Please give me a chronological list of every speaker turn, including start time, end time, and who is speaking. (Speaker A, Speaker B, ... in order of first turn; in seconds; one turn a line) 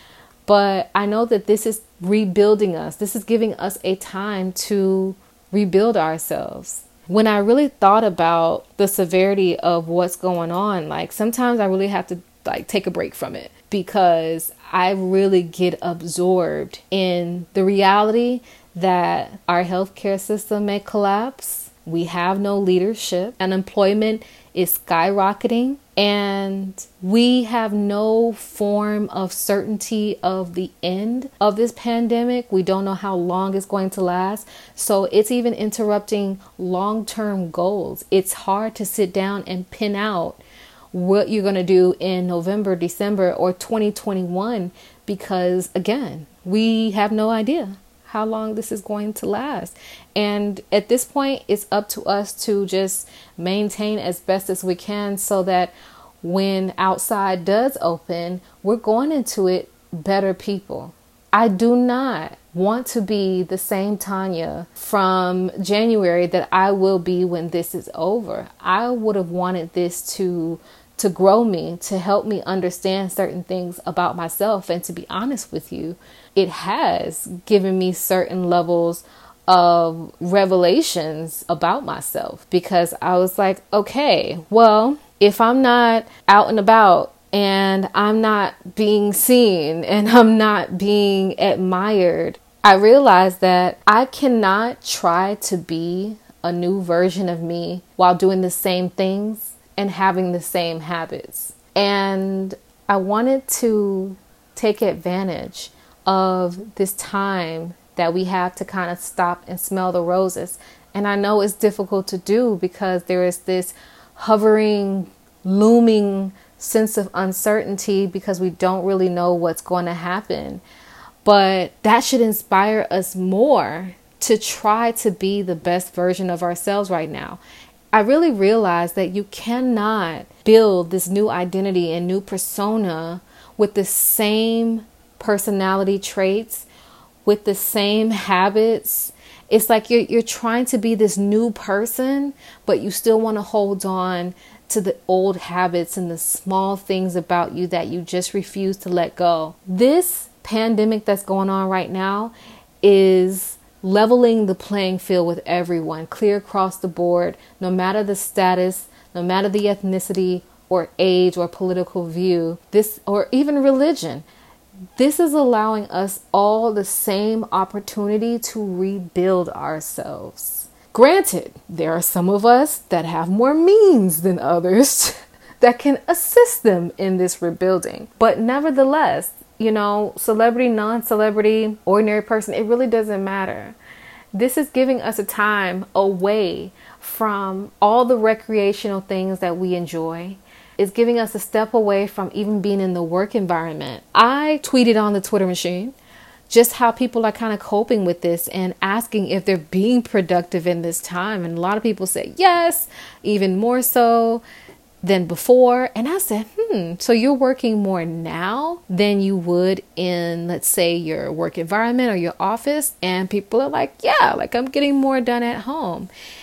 Speaker A: 0.5-40.4
Speaker A: 40.9-120.6
Speaker A: 121.2-127.4
Speaker A: 127.9-136.7
Speaker A: 137.2-164.2
Speaker A: 165.0-183.8
Speaker A: 184.3-195.9
Speaker A: 196.5-204.4
Speaker A: 205.0-216.1